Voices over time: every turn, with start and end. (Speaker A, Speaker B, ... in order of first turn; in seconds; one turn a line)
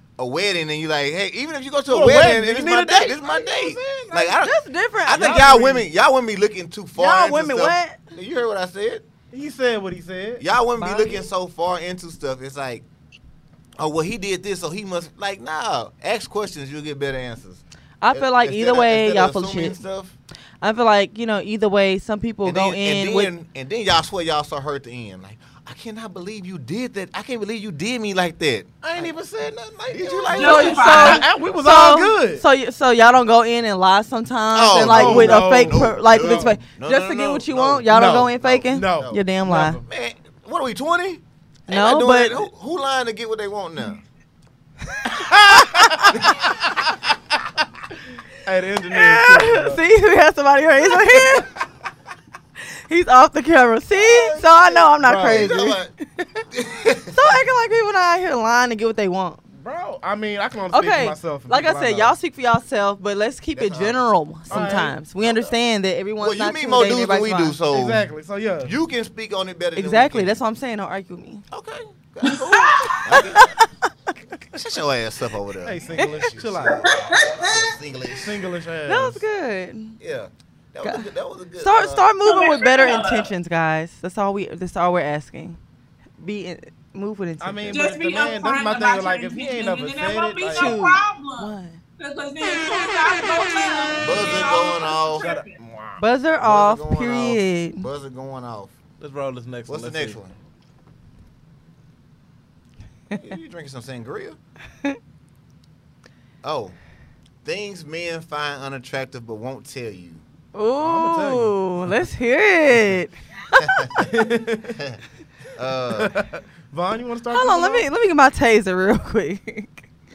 Speaker A: 0.2-9.0
Speaker B: 1.9-4.3
Speaker C: 4.4-5.8
Speaker B: 5.1-5.8
Speaker C: 7.0-8.0
Speaker B: 9.3-10.4
Speaker A: 10.4-12.8
Speaker C: 10.8-11.2
Speaker A: 13.8-20.1
Speaker C: 18.0-19.8
Speaker C: 20.6-23.3
Speaker A: 22.4-29.1
Speaker B: 28.8-32.4
Speaker A: 29.9-30.9
Speaker D: 30.3-31.3
Speaker C: 30.3-39.8
Speaker A: 34.5-39.2
Speaker B: 34.8-36.5
Speaker B: 37.9-39.8
Speaker A: 39.8-44.0
Speaker C: 41.7-42.4
Speaker C: 44.9-46.1
Speaker B: 45.1-46.8
Speaker B: 48.4-49.8
Speaker C: 48.9-51.5
Speaker B: 51.1-51.4
Speaker C: 52.9-55.8
Speaker A: 53.9-55.9
Speaker B: 55.0-55.7
Speaker A: 56.5-57.4
Speaker C: 57.1-59.4
Speaker B: 59.5-62.1
Speaker C: 60.7-67.6
Speaker A: 63.5-65.6
Speaker B: 64.5-65.0
Speaker A: 66.2-68.1
Speaker B: 67.7-68.8
Speaker A: 68.6-70.4
Speaker C: 69.8-71.4
Speaker A: 71.5-73.5
Speaker D: 72.2-73.2
Speaker C: 73.2-73.8
Speaker A: 74.5-78.3
Speaker B: 75.6-77.0
Speaker D: 77.1-77.6
Speaker B: 78.2-79.2
Speaker C: 78.9-80.0
Speaker A: 80.0-82.0
Speaker C: 81.6-85.6
Speaker D: 82.2-83.3
Speaker C: 86.2-87.8
Speaker B: 87.4-90.8
Speaker D: 87.7-95.5
Speaker C: 90.5-91.8
Speaker A: 94.0-95.2
Speaker B: 95.2-96.0
Speaker C: 96.0-97.9
Speaker A: 96.4-98.7
Speaker B: 99.0-100.2
Speaker A: 99.7-100.3
Speaker A: 103.1-104.4
Speaker A: 106.4-106.7
Speaker A: 107.4-110.2
Speaker C: 110.5-113.8
Speaker B: 110.8-112.1
Speaker A: 113.6-114.1
Speaker B: 114.0-114.8
Speaker A: 115.5-116.1
Speaker B: 115.9-117.9
Speaker C: 117.3-119.8